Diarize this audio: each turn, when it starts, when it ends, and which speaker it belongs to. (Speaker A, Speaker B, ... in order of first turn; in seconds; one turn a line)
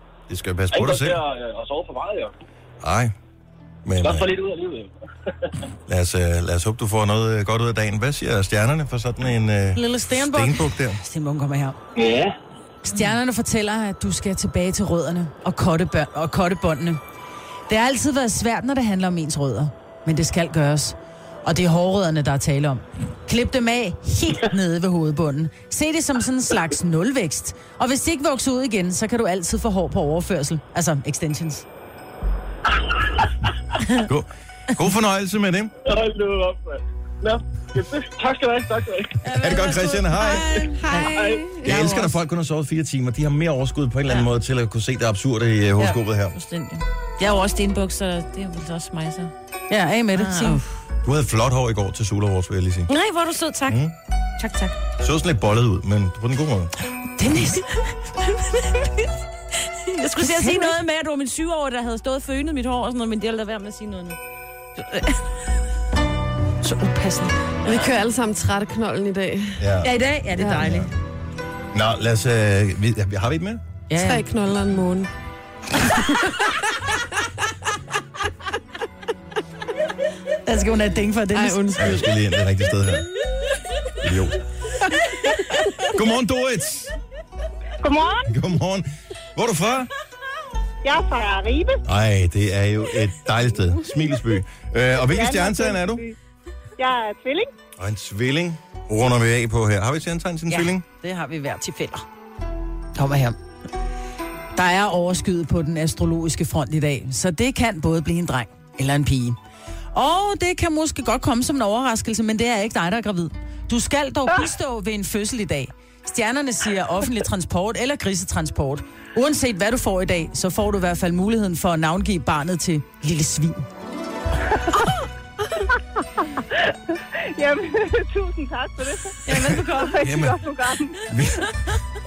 Speaker A: 0.3-1.2
Speaker B: 0.7-2.3
Speaker A: 2.8-3.1
Speaker A: 3.9-4.3
Speaker B: 4.0-4.9
Speaker A: 5.9-11.0
Speaker C: 9.8-11.8
Speaker B: 12.0-12.3
Speaker C: 12.8-17.0
Speaker C: 17.7-31.7
Speaker A: 34.0-35.7
Speaker B: 35.9-39.3
Speaker A: 39.3-40.6
Speaker C: 39.3-40.9
Speaker D: 40.8-41.9
Speaker E: 40.9-41.2
Speaker B: 41.1-41.6
Speaker A: 41.6-46.4
Speaker C: 41.6-42.1
Speaker E: 46.3-49.3
Speaker C: 49.7-50.6
Speaker E: 50.1-50.7
Speaker A: 51.0-52.9
Speaker E: 52.9-53.8
Speaker A: 53.7-53.9
Speaker E: 54.4-54.8
Speaker A: 55.0-56.7
Speaker C: 57.2-57.7
Speaker E: 58.4-59.1
Speaker E: 59.8-64.2
Speaker C: 60.2-60.8
Speaker E: 64.8-65.2
Speaker C: 66.6-67.3
Speaker D: 67.7-69.6
Speaker A: 69.6-69.9
Speaker E: 69.8-70.9
Speaker D: 70.4-70.8
Speaker A: 70.6-70.9
Speaker A: 71.7-73.6
Speaker C: 73.9-74.2
Speaker D: 74.0-75.1
Speaker C: 80.5-82.0
Speaker D: 81.3-82.1
Speaker A: 81.8-83.1
Speaker A: 84.0-84.4
Speaker A: 85.9-86.9
Speaker F: 87.8-88.3
Speaker A: 88.3-89.9
Speaker F: 90.8-91.8
Speaker A: 91.8-96.1
Speaker F: 95.1-96.0
Speaker F: 96.8-97.5
Speaker A: 97.8-100.8
Speaker C: 100.5-102.0
Speaker C: 103.0-103.4
Speaker C: 104.5-109.4
Speaker C: 109.9-123.7
Speaker F: 127.3-130.9
Speaker A: 129.3-130.4
Speaker A: 131.1-131.5